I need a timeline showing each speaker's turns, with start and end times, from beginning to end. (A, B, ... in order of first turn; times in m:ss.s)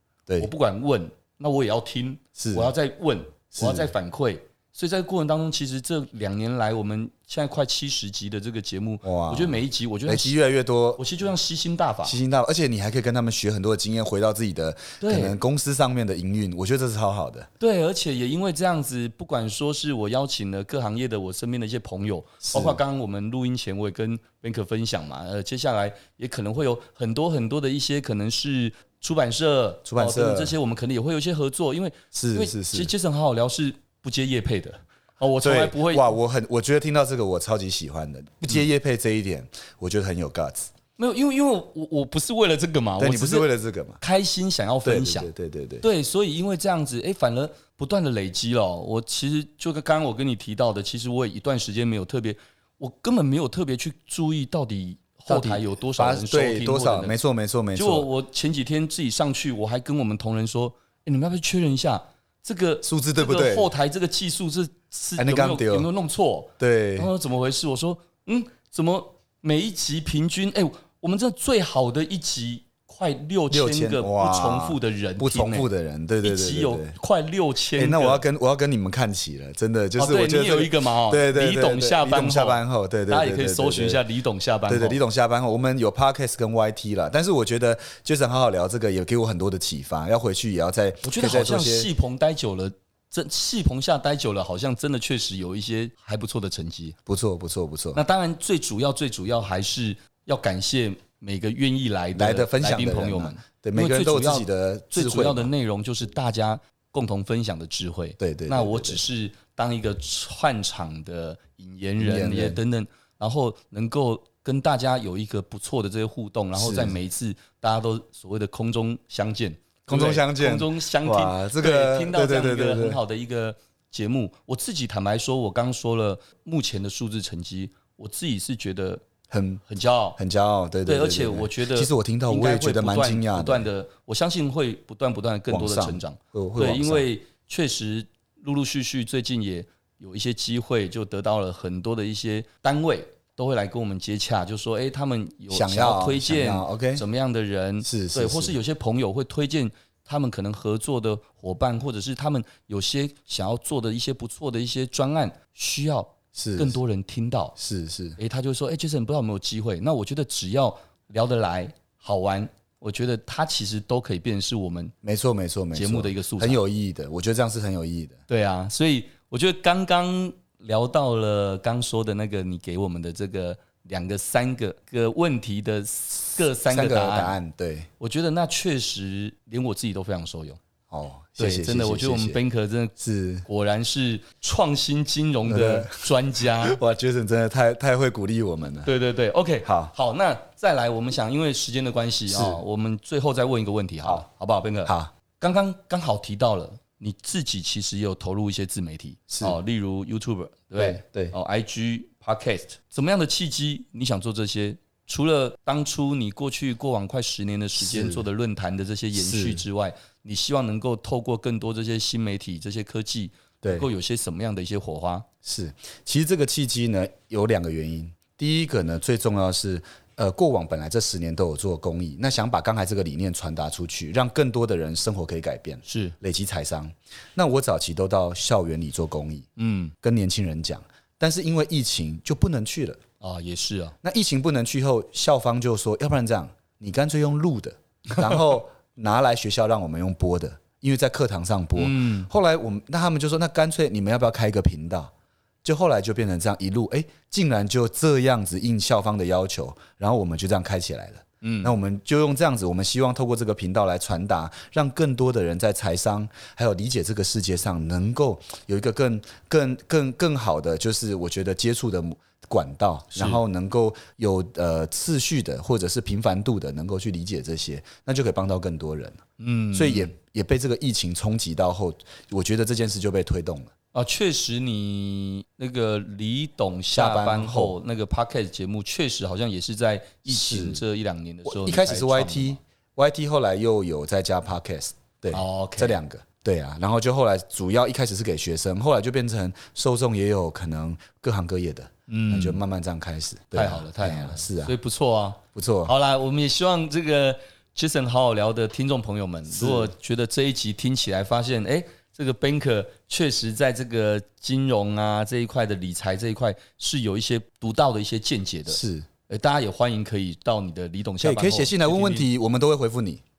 0:00.3-0:00.5 A
0:00.4-0:10.4 B
0:02.4-0:02.8 A
0:03.5-0:03.9 A
0:09.0-0:11.0 A
0:11.0-0:12.2 B
0:12.0-0:17.5 A
0:15.0-0:15.4 B
0:17.6-0:36.1 B
0:22.4-0:22.8 A
0:29.9-0:30.6 A
0:32.1-0:32.9 A
0:35.4-0:40.7 A
0:41.0-0:57.2 B
0:43.0-0:44.0 A
0:44.8-0:45.9 A
0:55.3-0:58.1 A
0:57.8-1:15.7 B
1:02.8-1:03.7 A
1:05.2-1:05.9 A
1:06.6-1:07.1 A
1:13.5-1:17.0 A
1:16.2-1:18.2 B
1:17.8-1:24.0 A
1:20.0-1:25.0 B
1:24.7-1:31.9 A
1:31.0-1:37.0 B
1:37.1-1:38.0 A
1:38.0-2:09.0 B
1:42.2-1:45.5 A
1:48.2-1:49.0 A
1:52.0-1:52.6 A
1:56.5-1:57.0 A
1:59.9-2:03.0 A
2:09.3-2:09.6 A
2:09.7-2:10.2 B
2:10.2-2:13.7 A
2:10.9-2:37.6 B
2:15.5-2:17.1 A
2:25.5-2:27.0 A
2:27.8-2:28.6 A
2:36.4-2:36.8 A
2:37.6-2:38.2 A
2:38.2-2:44.9 B
2:45.0-2:48.2 A
2:45.7-2:46.6 B
2:48.3-2:57.4 B
2:56.6-2:57.9 A
2:58.0-3:00.6 B
3:00.9-3:02.4 A
3:01.4-3:02.9 B
3:03.0-3:03.5 A
3:03.5-3:06.8 B
3:05.5-3:08.9 A
3:08.8-3:35.3 B
3:09.6-3:09.9 A
3:12.3-3:12.6 A
3:14.8-3:15.1 A
3:19.3-3:19.6 A
3:20.8-3:21.4 A
3:27.8-3:28.2 A
3:29.2-3:29.6 A
3:33.6-3:33.9 A
3:35.4-3:49.5 A
3:45.8-3:46.2 B
3:49.6-3:49.9 B
3:50.0-3:53.0 A
3:53.2-3:54.0 B
3:54.0-4:05.1 A
4:01.8-4:02.3 B
4:05.6-4:33.7 A
4:11.4-4:11.7 B
4:23.1-4:23.4 B
4:29.4-4:30.1 B
4:33.9-4:42.6 B
4:36.9-4:37.8 A
4:40.3-4:40.8 A
4:41.4-4:54.8 A
4:45.3-4:46.0 B
4:52.1-4:52.6 B
4:53.5-5:12.3 B
4:55.6-4:55.9 A
4:59.5-4:59.9 A
5:08.7-5:09.1 A
5:11.2-5:13.2 A